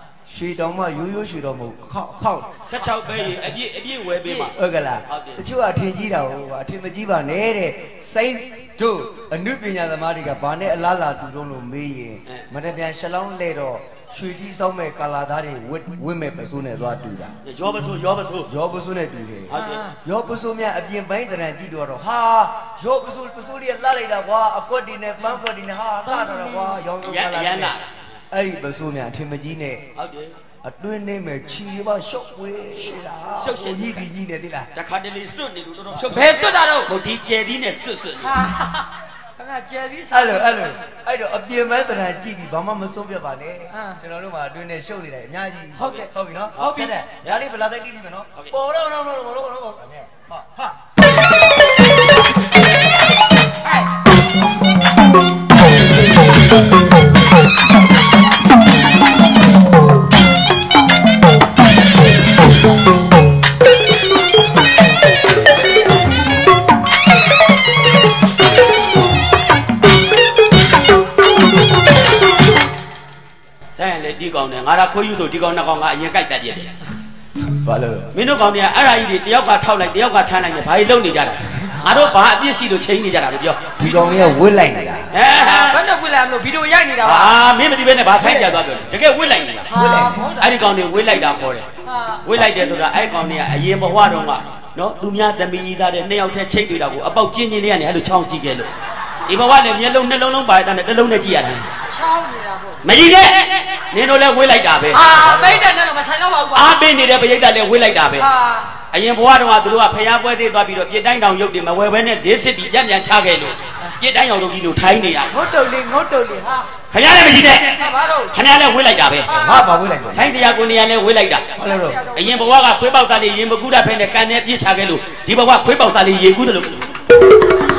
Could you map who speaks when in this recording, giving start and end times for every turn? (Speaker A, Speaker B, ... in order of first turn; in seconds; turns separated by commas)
Speaker A: 0.3-2.5, Speaker B: 2.6-5.4, Speaker A: 4.2-17.4, Speaker B: 17.4-18.5, Speaker A: 18.4-27.8, Speaker B: 19.5-19.8, Speaker C: 19.5-20.0, Speaker C: 26.1-26.8, Speaker B: 27.0-28.2, Speaker A: 28.3-29.9, Speaker B: 30.0-30.4, Speaker A: 30.6-34.7, Speaker B: 32.9-34.1, Speaker B: 34.7-38.4, Speaker A: 35.9-36.3, Speaker C: 36.0-36.9, Speaker C: 38.2-40.7, Speaker A: 40.1-50.7, Speaker C: 43.7-44.0, Speaker C: 45.8-46.9, Speaker B: 46.5-47.4, Speaker B: 73.7-76.7, Speaker A: 77.4-78.1, Speaker B: 78.1-83.8, Speaker C: 81.8-82.1, Speaker A: 83.8-85.1, Speaker C: 83.8-84.4, Speaker B: 85.1-85.8, Speaker C: 85.3-87.4, Speaker B: 87.0-89.7, Speaker C: 88.2-88.6, Speaker C: 89.7-90.5, Speaker A: 89.7-90.3, Speaker B: 90.4-91.7, Speaker C: 91.8-92.3, Speaker B: 92.2-98.7, Speaker B: 99.3-101.7, Speaker C: 101.9-102.8, Speaker B: 102.8-105.1, Speaker C: 104.9-106.8, Speaker A: 105.1-105.6, Speaker B: 106.5-108.3, Speaker C: 108.2-108.8, Speaker B: 108.9-115.4, Speaker C: 115.3-116.7, Speaker B: 116.9-119.4, Speaker C: 117.7-118.3, Speaker C: 119.3-119.7, Speaker A: 119.3-120.3, Speaker B: 120.1-121.5, Speaker A: 121.6-122.0, Speaker C: 121.6-122.4, Speaker B: 122.1-126.9